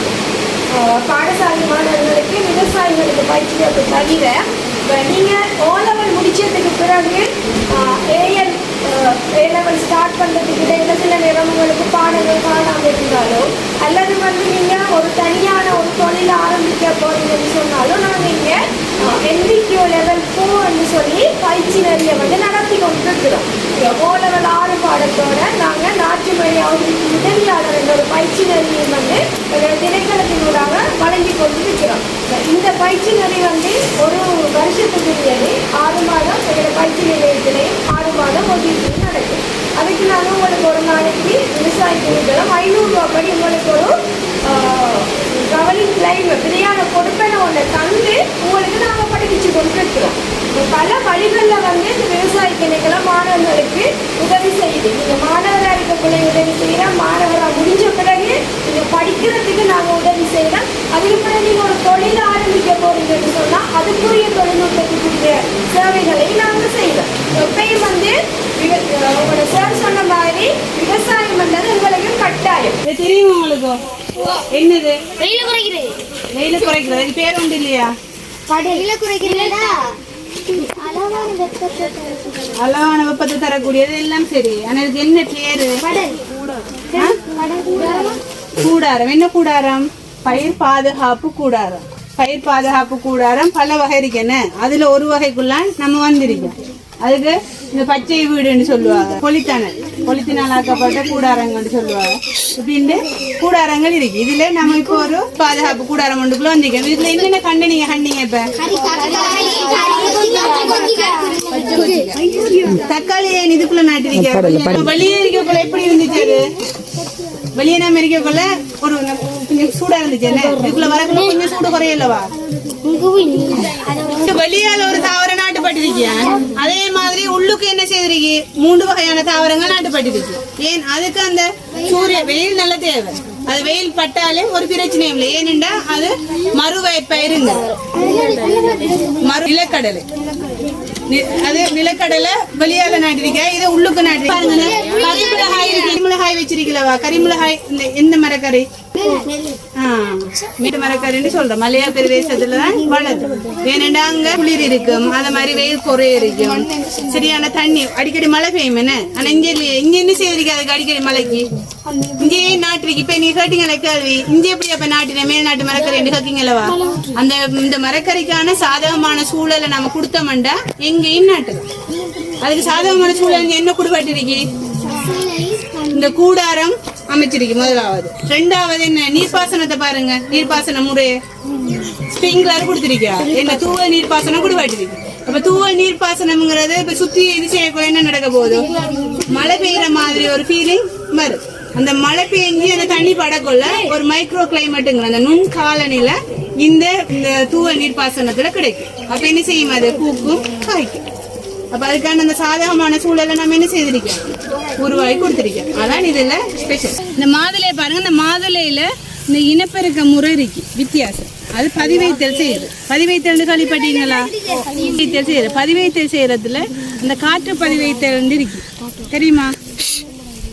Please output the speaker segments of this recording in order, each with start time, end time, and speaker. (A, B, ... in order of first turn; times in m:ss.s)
0:00.7-1:12.8 A
1:12.8-1:15.3 B
1:15.5-1:15.9 C
1:16.3-1:17.9 B
1:18.7-1:19.6 C
1:20.7-1:22.3 C
1:22.6-1:26.4 B
1:27.2-1:27.7 A
1:28.6-1:56.4 B
1:49.9-1:50.4 A
1:57.5-2:02.3 B
2:02.8-2:03.8 C
2:04.0-2:18.3 B
2:18.2-2:19.1 C
2:19.1-2:20.1 B
2:21.0-2:28.7 B
2:29.8-2:51.7 B
2:52.4-3:01.1 B
2:55.3-2:55.8 C
3:01.7-3:21.0 B
3:21.7-3:39.5 B